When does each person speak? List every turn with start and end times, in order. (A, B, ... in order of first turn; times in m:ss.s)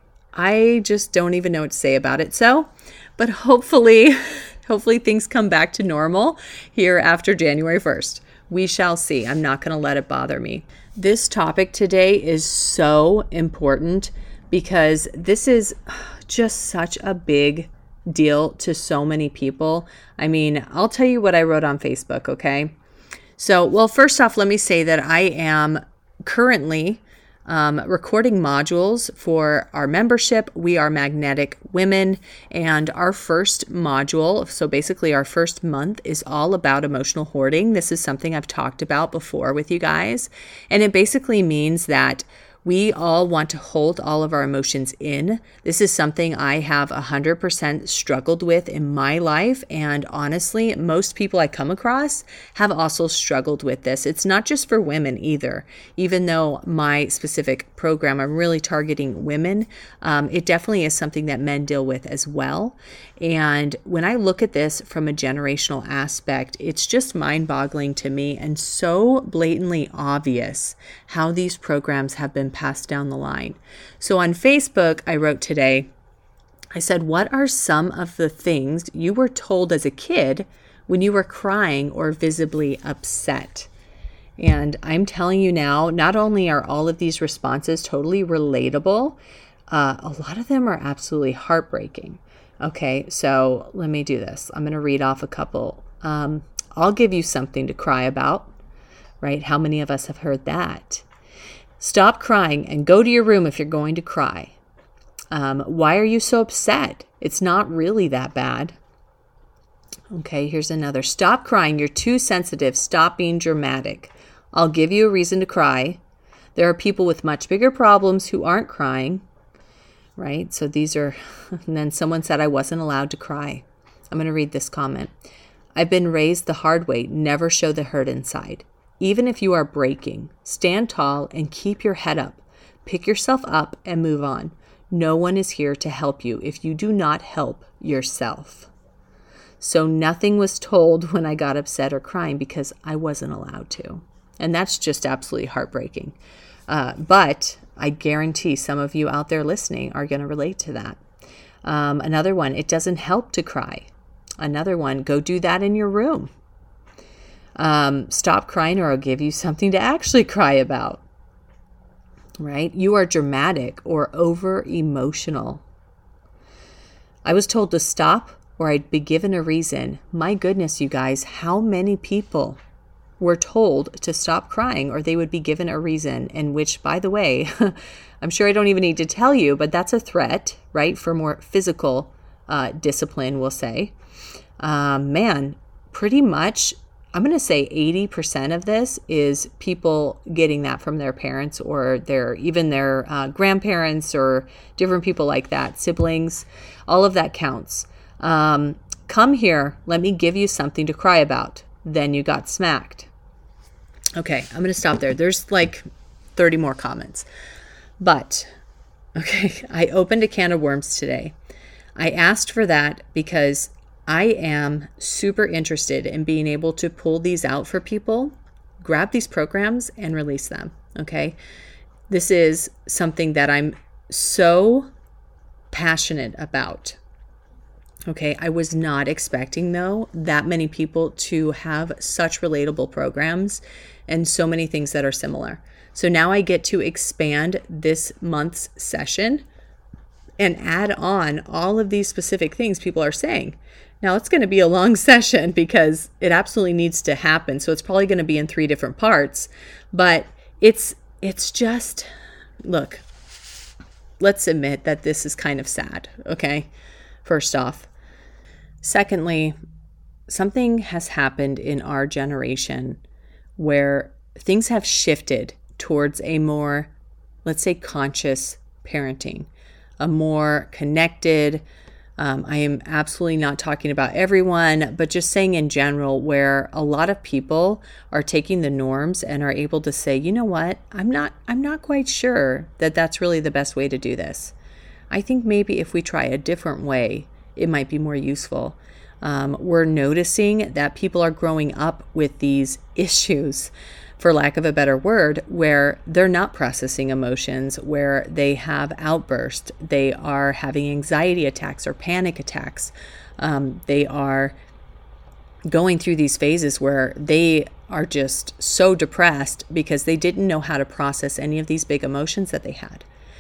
0:00.4-0:22.7 A
0:23.4-1:15.9 A
1:16.8-1:23.7 A
1:24.4-1:29.2 A
1:29.7-1:38.5 A
1:39.2-1:41.1 A
1:41.8-1:44.5 A
1:45.3-1:48.8 A
1:50.1-1:56.0 A
1:56.6-1:59.2 A
2:00.2-2:05.1 A
2:05.8-2:18.7 A
2:19.6-2:26.2 A
2:26.7-2:31.0 A
2:31.6-2:36.3 A
2:37.6-2:41.0 A
2:42.4-2:45.6 A
2:47.2-2:52.6 A
2:53.2-3:03.9 A
3:04.6-3:23.1 A
3:24.2-3:25.8 A
3:26.4-3:27.3 A
3:28.0-3:28.5 A
3:29.2-3:31.4 A
3:32.0-3:41.4 A
3:42.1-3:44.9 A
3:45.7-3:47.0 A
3:48.1-3:59.4 A
4:00.4-4:12.1 A
4:12.6-4:13.0 A
4:14.2-4:16.7 A
4:17.2-4:17.9 A
4:18.8-4:19.6 A
4:20.3-4:23.0 A
4:23.6-4:26.9 A
4:27.4-4:29.5 A
4:30.0-4:31.6 A
4:32.2-4:44.5 A
4:45.1-5:04.6 A
5:05.7-5:13.1 A